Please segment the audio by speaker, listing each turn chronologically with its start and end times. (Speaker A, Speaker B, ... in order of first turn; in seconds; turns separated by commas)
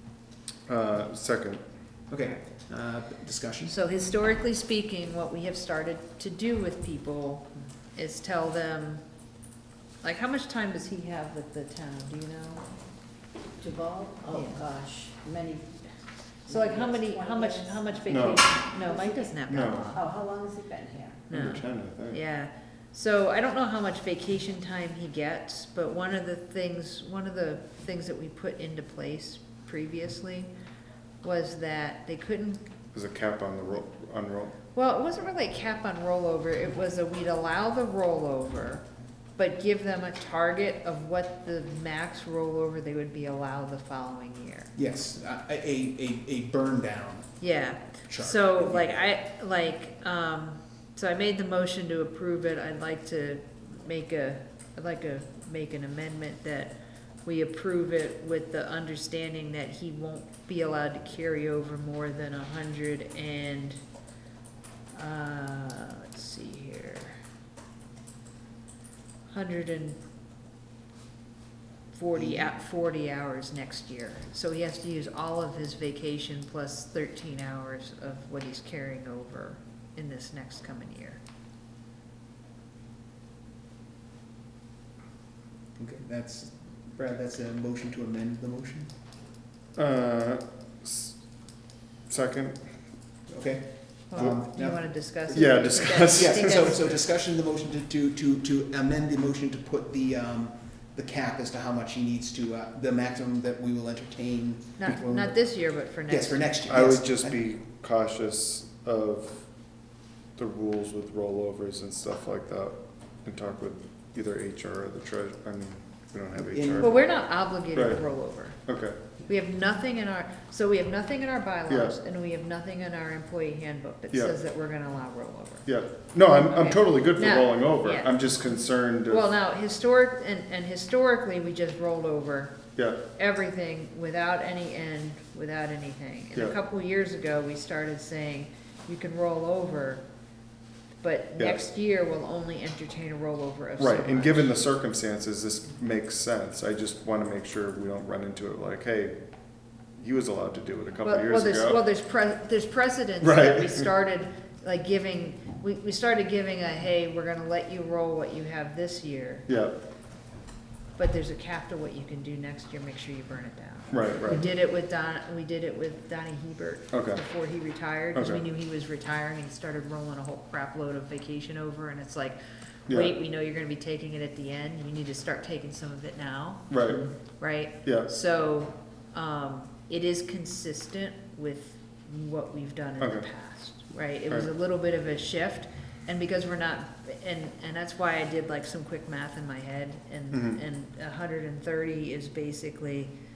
Speaker A: 0.7-1.6, Speaker B: 2.1-3.7, Speaker C: 3.7-9.0, Speaker C: 10.0-12.6, Speaker D: 13.6-19.4, Speaker C: 14.3-14.6, Speaker C: 16.5-20.0, Speaker A: 18.1-18.5, Speaker A: 19.5-19.9, Speaker D: 19.9-21.2, Speaker A: 21.3-22.2, Speaker C: 21.3-30.5, Speaker C: 31.2-32.6, Speaker A: 32.9-34.5, Speaker C: 34.7-38.8, Speaker C: 39.4-44.7, Speaker B: 44.8-47.4, Speaker C: 47.4-63.8, Speaker B: 48.1-48.9, Speaker C: 64.9-67.2, Speaker C: 69.3-70.0, Speaker C: 71.9-81.2, Speaker B: 72.1-72.5, Speaker B: 85.8-88.9, Speaker A: 89.8-91.2, Speaker A: 92.1-92.6, Speaker B: 93.3-95.5, Speaker C: 94.1-96.9, Speaker A: 95.3-96.8, Speaker B: 96.1-105.5, Speaker C: 104.8-106.5, Speaker B: 106.1-107.4, Speaker A: 106.7-109.4, Speaker A: 110.4-117.1, Speaker B: 116.4-116.9, Speaker C: 116.8-118.6, Speaker A: 117.7-118.0, Speaker A: 118.6-119.0, Speaker C: 119.3-125.7, Speaker A: 121.7-122.0, Speaker A: 125.7-129.2, Speaker C: 126.4-128.3, Speaker C: 129.1-140.0, Speaker C: 141.0-144.5, Speaker A: 143.8-149.2, Speaker A: 150.0-151.8, Speaker C: 151.0-159.5, Speaker A: 153.2-153.9, Speaker A: 159.5-159.8, Speaker C: 161.0-172.4, Speaker A: 163.9-164.5, Speaker A: 166.9-167.2, Speaker A: 168.2-168.4, Speaker C: 172.9-176.8, Speaker A: 172.9-173.2, Speaker A: 176.7-177.0, Speaker C: 177.4-193.1, Speaker A: 177.8-178.1, Speaker A: 183.0-183.3, Speaker A: 190.3-190.6